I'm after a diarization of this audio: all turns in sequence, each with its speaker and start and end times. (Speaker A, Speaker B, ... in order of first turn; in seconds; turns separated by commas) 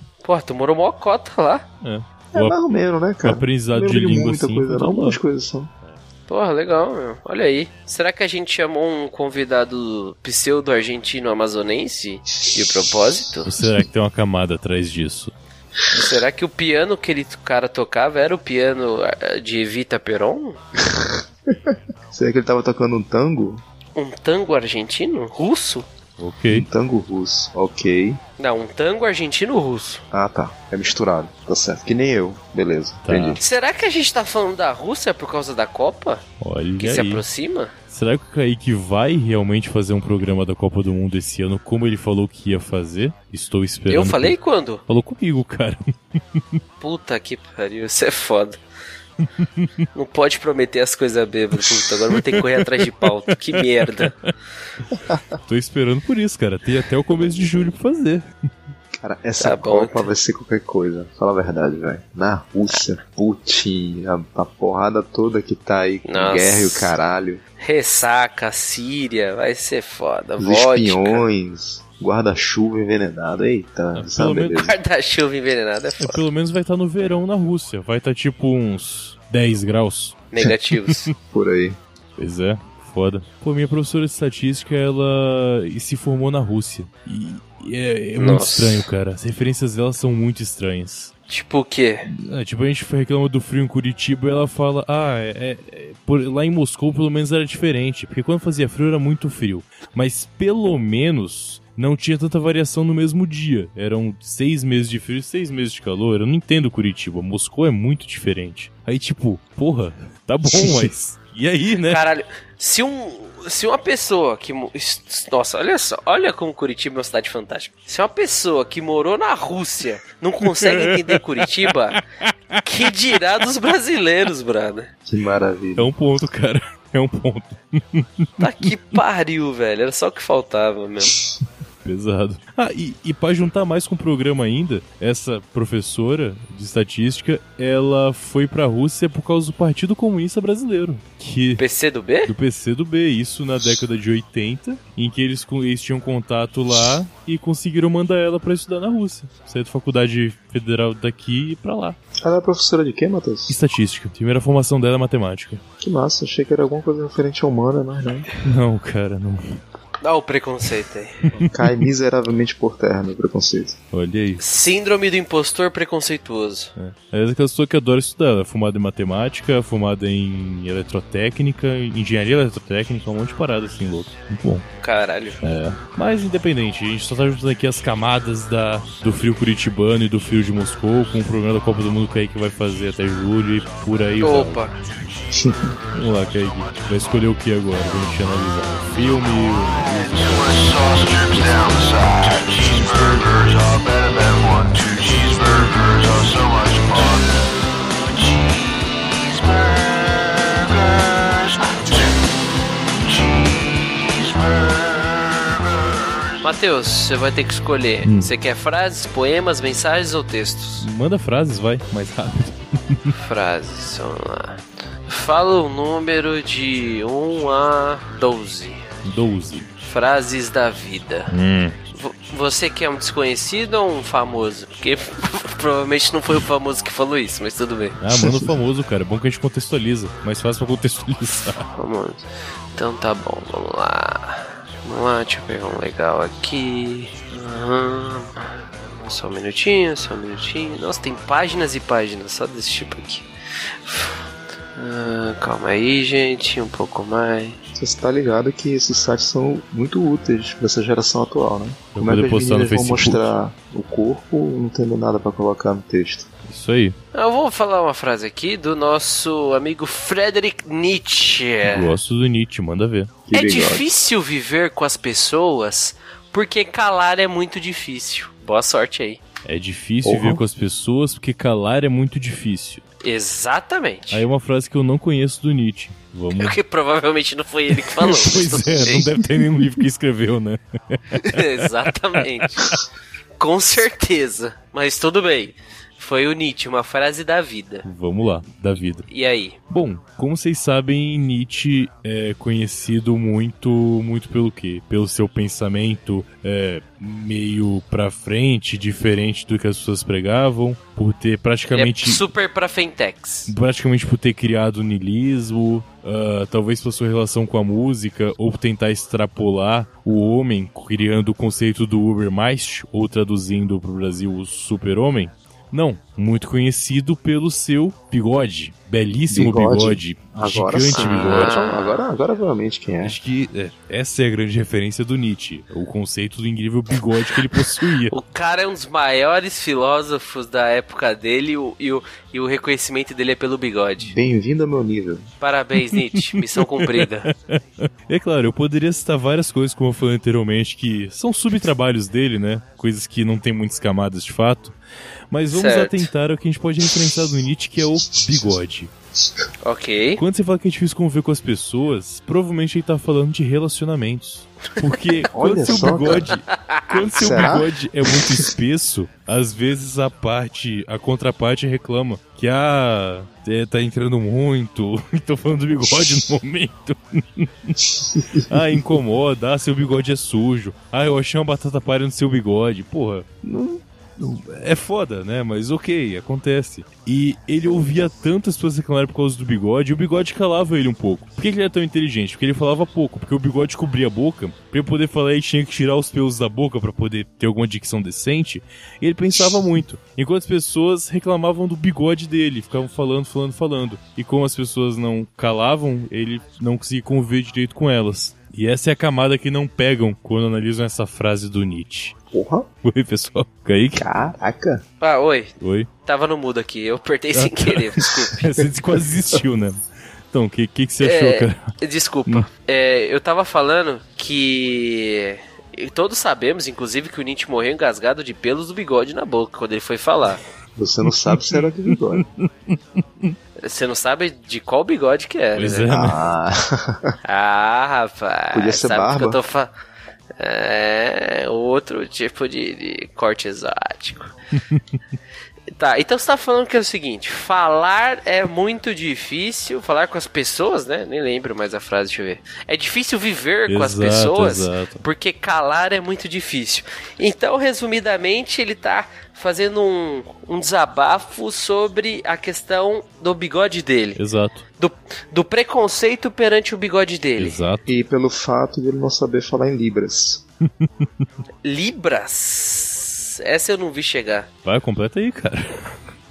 Speaker A: 0.2-1.6, Speaker B: 1.8-2.6, Speaker C: 2.3-5.7, Speaker B: 3.2-5.2, Speaker A: 6.3-13.5, Speaker B: 13.4-15.3, Speaker A: 15.9-20.6, Speaker C: 20.9-23.6, Speaker A: 24.0-25.9, Speaker B: 26.2-26.6, Speaker C: 26.5-28.2, Speaker A: 28.4-30.0, Speaker C: 30.1-33.4, Speaker B: 33.0-33.4, Speaker A: 33.4-36.2, Speaker B: 36.4-37.2, Speaker A: 36.8-37.7, Speaker B: 37.9-44.4, Speaker A: 43.9-44.8, Speaker B: 44.9-46.6, Speaker A: 46.8-48.6, Speaker B: 49.2-49.7, Speaker A: 49.9-54.2, Speaker B: 52.1-54.3, Speaker B: 55.4-58.3, Speaker C: 59.0-67.4, Speaker A: 59.4-60.1, Speaker A: 66.1-66.9, Speaker A: 67.6-71.2, Speaker C: 70.4-74.8, Speaker B: 73.9-74.7, Speaker A: 74.6-76.2, Speaker B: 76.0-80.3, Speaker A: 80.3-81.1, Speaker C: 81.3-81.8, Speaker B: 82.2-91.1, Speaker A: 88.2-88.9, Speaker A: 91.3-92.1, Speaker B: 92.1-112.0, Speaker C: 110.5-110.9, Speaker A: 111.9-122.0, Speaker B: 120.6-121.7, Speaker A: 122.6-124.9, Speaker C: 125.1-125.9, Speaker B: 125.8-128.7, Speaker A: 128.4-131.2, Speaker B: 131.8-141.6, Speaker A: 141.6-142.3, Speaker B: 142.3-152.0, Speaker C: 152.2-153.6, Speaker B: 153.5-155.6, Speaker C: 155.8-158.3, Speaker B: 158.4-159.6, Speaker A: 160.0-161.3, Speaker B: 161.3-161.6, Speaker C: 161.4-163.8, Speaker B: 163.9-164.4, Speaker A: 164.4-166.7, Speaker B: 166.8-174.7, Speaker A: 174.8-175.4, Speaker B: 175.4-184.6, Speaker A: 184.2-184.8, Speaker C: 185.3-185.7, Speaker B: 185.9-191.4, Speaker D: 189.9-197.3, Speaker D: 198.2-202.2, Speaker D: 203.0-205.4, Speaker A: 206.4-210.9, Speaker B: 208.0-208.3, Speaker B: 210.8-213.1, Speaker A: 213.2-218.8, Speaker B: 219.0-219.7, Speaker A: 219.8-221.3, Speaker B: 221.3-221.8, Speaker A: 221.9-228.0, Speaker B: 228.0-231.7, Speaker C: 228.2-228.5, Speaker A: 231.8-243.3, Speaker A: 243.8-244.2, Speaker A: 244.8-247.6, Speaker C: 247.8-256.3, Speaker B: 251.9-253.3, Speaker B: 256.5-257.0, Speaker A: 257.1-261.9, Speaker B: 261.6-263.2, Speaker C: 263.3-263.9, Speaker A: 263.3-269.2, Speaker B: 269.4-272.8, Speaker C: 270.0-270.4, Speaker A: 273.0-274.2, Speaker B: 274.1-276.6, Speaker A: 276.4-279.1, Speaker B: 277.8-281.7, Speaker A: 281.2-282.8, Speaker A: 283.4-287.9, Speaker B: 287.9-289.1, Speaker A: 289.1-289.6, Speaker B: 289.7-302.2, Speaker A: 301.7-303.5, Speaker B: 303.5-321.6, Speaker C: 319.3-323.2, Speaker A: 320.9-322.1, Speaker B: 323.0-328.1, Speaker A: 328.1-334.2, Speaker C: 334.0-335.3, Speaker A: 335.4-337.3, Speaker B: 335.9-344.8, Speaker B: 345.3-348.9, Speaker A: 345.5-346.1, Speaker A: 349.6-350.2, Speaker B: 350.2-402.1, Speaker C: 355.3-356.3, Speaker A: 356.5-357.1, Speaker C: 357.2-357.7, Speaker C: 402.3-402.7, Speaker B: 402.8-404.1, Speaker C: 404.0-404.8, Speaker A: 405.0-405.5, Speaker B: 405.6-405.9, Speaker A: 406.1-408.4, Speaker B: 407.3-411.7, Speaker A: 411.0-420.4, Speaker C: 420.8-422.3, Speaker B: 421.3-423.3, Speaker A: 423.6-425.9, Speaker B: 425.6-426.2, Speaker C: 425.9-427.1, Speaker A: 427.2-429.7, Speaker C: 428.5-429.4, Speaker A: 430.4-434.4, Speaker A: 435.7-454.2, Speaker B: 443.7-445.0, Speaker B: 454.2-454.6, Speaker A: 454.8-457.6, Speaker B: 457.4-457.9, Speaker C: 457.9-460.4, Speaker B: 460.6-461.1, Speaker A: 461.6-464.5, Speaker B: 464.6-465.9